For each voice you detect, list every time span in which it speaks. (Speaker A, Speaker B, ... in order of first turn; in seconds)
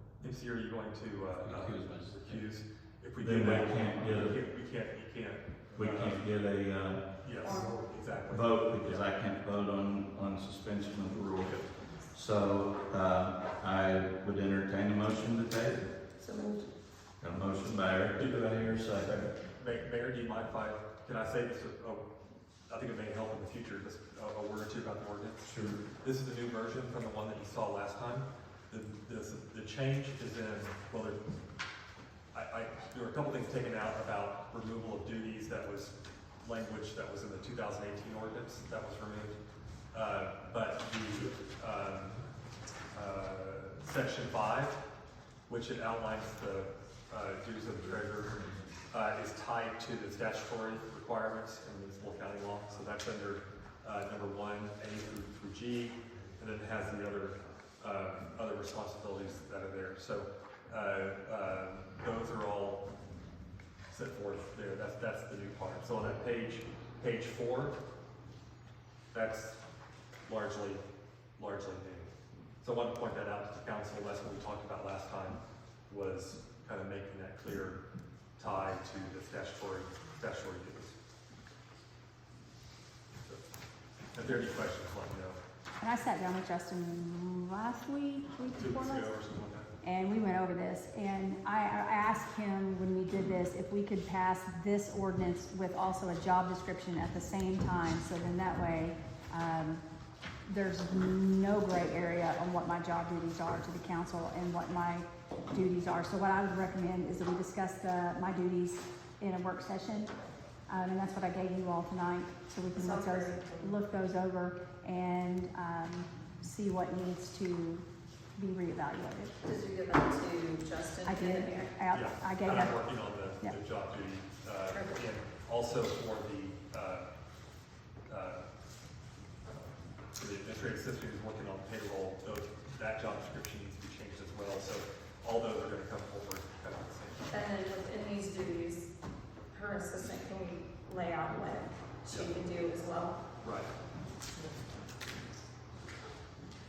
Speaker A: 0.2-6.3, 7.2-9.1, 18.1-22.1, 22.7-31.2, 32.3-39.4, 39.9-42.2, 42.9-44.8, 45.5-62.8, 63.9-67.8, 69.1-69.6, 70.3-70.8, 71.4-77.8, 78.4-81.0, 84.1-85.4, 88.6-89.7, 121.9-127.1, 128.1-128.5, 130.2-137.3, 143.4-143.7
Speaker B: 1.4-2.4, 3.2-4.4, 5.8-7.0, 8.3-15.9, 17.2-19.2, 25.4-25.8
Speaker C: 7.4-7.8, 16.2-16.7, 112.8-113.8, 119.4-121.7, 124.7-125.0, 137.3-138.9, 139.5-143.2
Speaker D: 85.8-89.1, 89.8-99.8, 100.5-110.1, 110.7-119.3, 121.0-122.8